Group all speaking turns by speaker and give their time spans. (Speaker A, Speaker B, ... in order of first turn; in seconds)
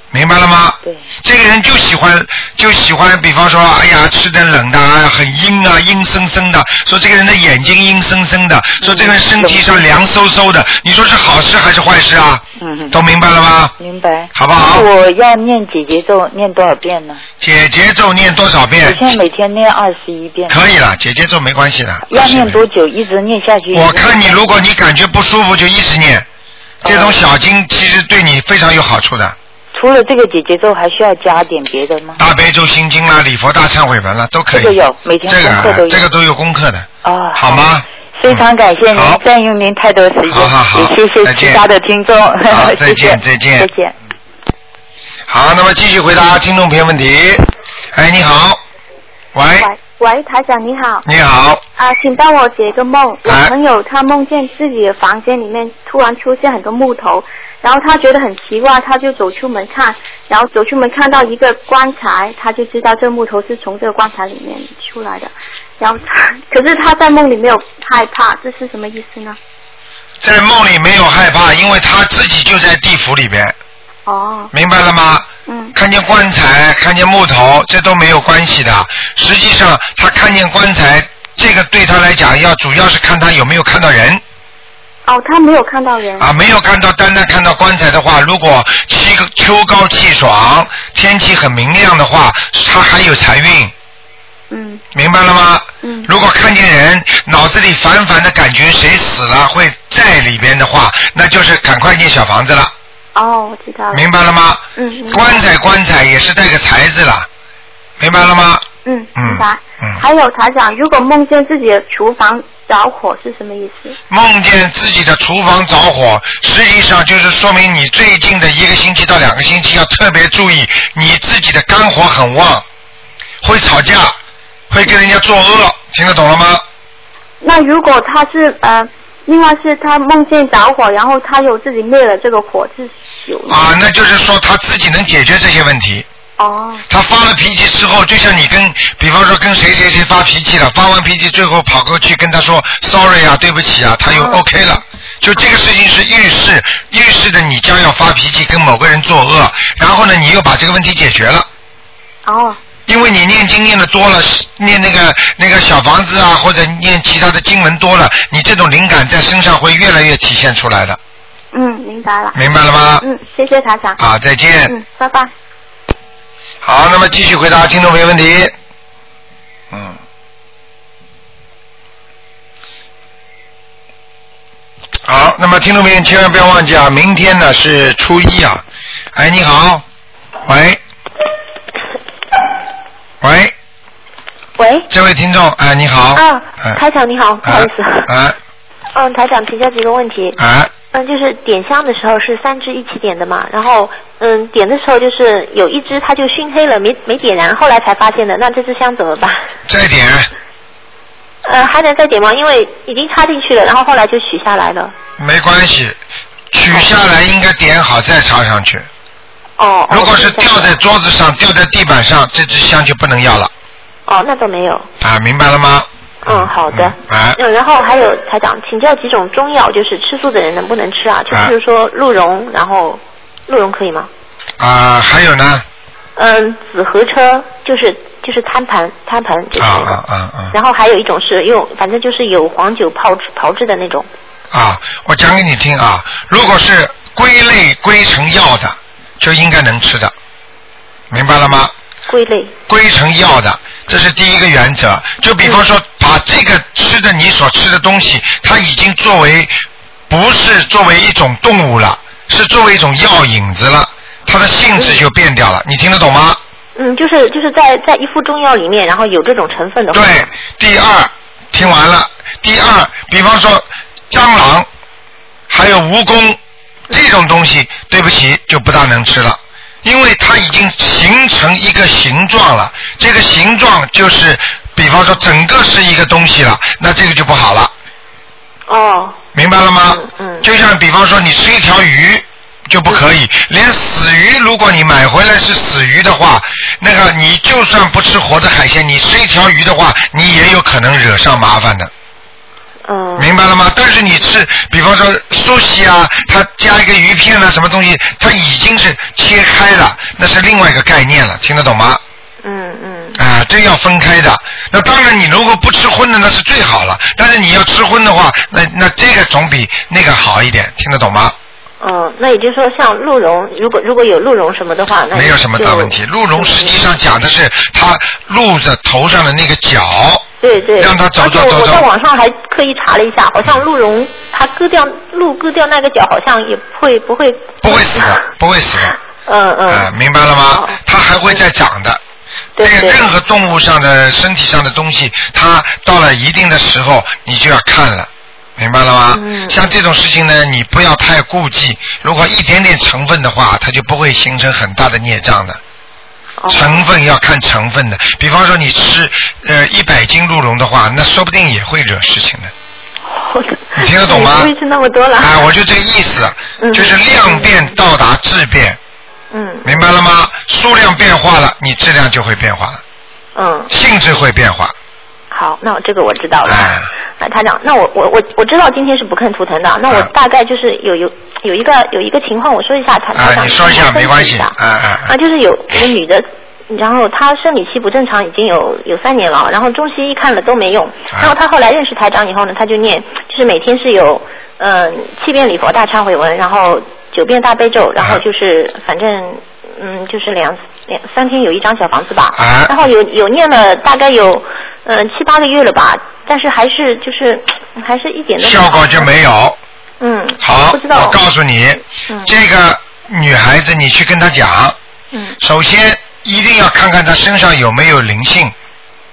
Speaker A: 0.1-13.7, 14.3-14.9, 17.4-19.1, 20.5-22.6, 23.7-26.2, 26.8-29.4, 32.2-39.2, 40.3-41.6, 42.5-43.7, 45.3-48.6, 49.3-49.7, 51.0-51.6, 53.2-53.5, 70.2-73.5, 74.5-84.2, 86.2-93.7, 94.9-102.7, 103.9-107.3, 108.0-108.6, 109.2-110.0, 114.1-122.6, 123.4-124.2, 124.7-126.6, 133.5-136.1, 136.9-151.5, 152.9-161.0, 162.3-163.0, 164.0-164.8, 166.6-168.5, 169.7-170.0, 175.1-178.6, 179.1-179.8, 180.4-180.8, 183.2-183.5, 184.9-186.8, 187.4-188.4, 190.4-190.7, 199.7-200.3, 205.2-206.0, 206.5-208.9, 209.9-213.5, 215.0-217.4, 224.6-225.6, 229.6-230.5, 234.5-240.1, 241.1-241.7, 242.7-249.5, 250.1-256.4, 259.9-264.7, 265.5-266.4, 266.9-277.7, 279.3-291.9, 293.2-302.0, 303.2-311.4, 315.1-320.2, 320.8-321.9, 327.6-328.9, 329.7-332.0, 332.6-345.6, 346.5-352.5, 353.7-354.5, 355.2-358.8, 359.6-362.8, 363.7-364.7, 366.4-366.9, 373.1-375.1, 392.3-392.8, 398.4-399.6, 400.4-404.8, 405.4-408.5
Speaker B: 0.8-1.1, 8.8-9.8, 12.6-13.0, 13.8-17.2, 18.8-20.6, 22.1-24.6, 26.8-27.2, 29.7-32.2, 34.5-36.0, 37.0-43.9
Speaker C: 49.6-51.0, 51.8-69.4, 74.0-74.5, 75.5-75.7, 85.0-86.3, 94.5-94.8, 95.8-96.1, 103.1-104.1, 104.8-105.5, 108.8-114.0, 127.4-133.6, 136.4-136.8, 144.1-144.4, 152.2-152.6, 161.5-162.3, 163.0-164.0, 164.7-165.3
Speaker D: 184.6-184.9, 186.2-188.1, 188.9-190.4, 190.9-199.4, 201.4-204.9, 209.6-210.7, 214.1-214.9, 216.2-224.1, 226.2-230.0, 230.5-234.1, 242.1-242.5, 254.8-255.0, 256.8-260.3, 278.7-279.2, 279.9-280.5, 292.9-293.3, 302.4-303.2, 311.8-316.8, 320.4-328.2, 329.2-329.9, 330.5-330.8, 332.6-333.0, 339.1-339.7, 346.4-346.8, 353.1-355.5, 356.6-357.7, 359.3-359.9, 363.3-363.7, 365.3-374.5, 375.0-399.1, 400.0-401.2, 402.1-402.3